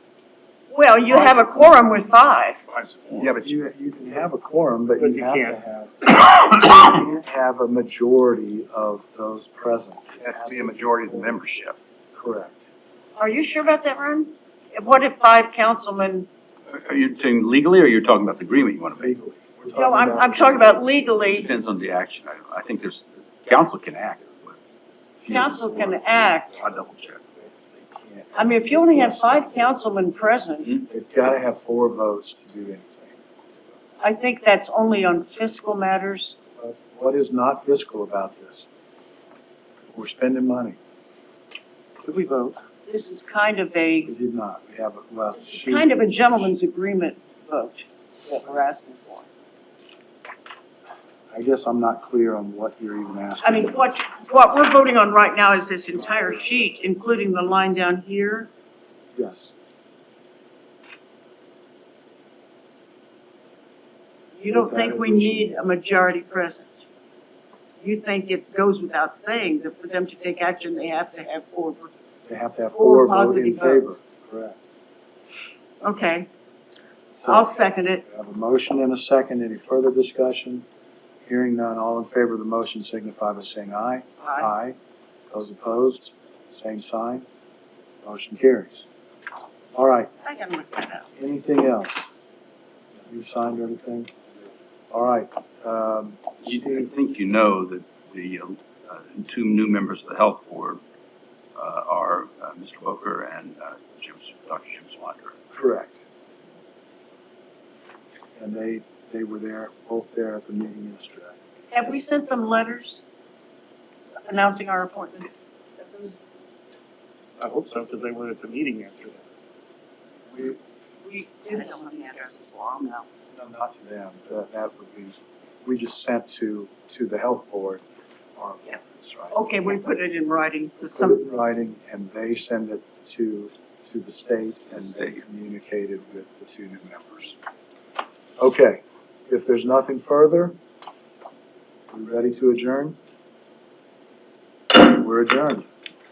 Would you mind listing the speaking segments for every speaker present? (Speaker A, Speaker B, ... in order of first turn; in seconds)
Speaker A: 0.7-2.6, 13.2-16.3, 19.7-21.5, 25.3-26.6, 28.4-30.8, 34.0-36.4, 42.9-44.1, 45.3-49.3, 53.4-58.5, 64.4-66.7, 67.8-71.9, 72.8-73.9, 75.8-76.3, 77.2-78.0, 90.2-91.1, 111.7-113.0, 114.2-116.2, 121.0-123.1, 129.3-131.2
Speaker B: 2.7-3.5, 10.2-11.8, 16.7-19.1, 21.3-24.6, 25.2-27.2, 96.4-100.8, 101.6-105.3, 134.7-135.2
Speaker C: 3.2-11.4, 12.1-12.7, 19.0-20.9, 27.4-29.6, 30.9-33.2, 36.6-38.7, 39.9-40.8, 44.1-46.5, 51.3-53.8, 55.9-56.5, 59.1-59.5, 64.5-65.5, 72.3-74.6, 77.1-77.5, 78.0-80.7, 81.3-84.8, 85.3-87.3, 88.0-88.9, 89.8-90.1, 91.2-92.1, 93.1-94.1, 94.9-96.9, 105.5-106.0, 108.4-111.4, 120.3-120.6, 123.3-127.8, 128.4-129.3, 130.9-137.4, 138.4-140.6, 141.9-143.0, 144.7-145.7
Speaker D: 5.0-5.6, 42.0-42.5, 117.4-119.2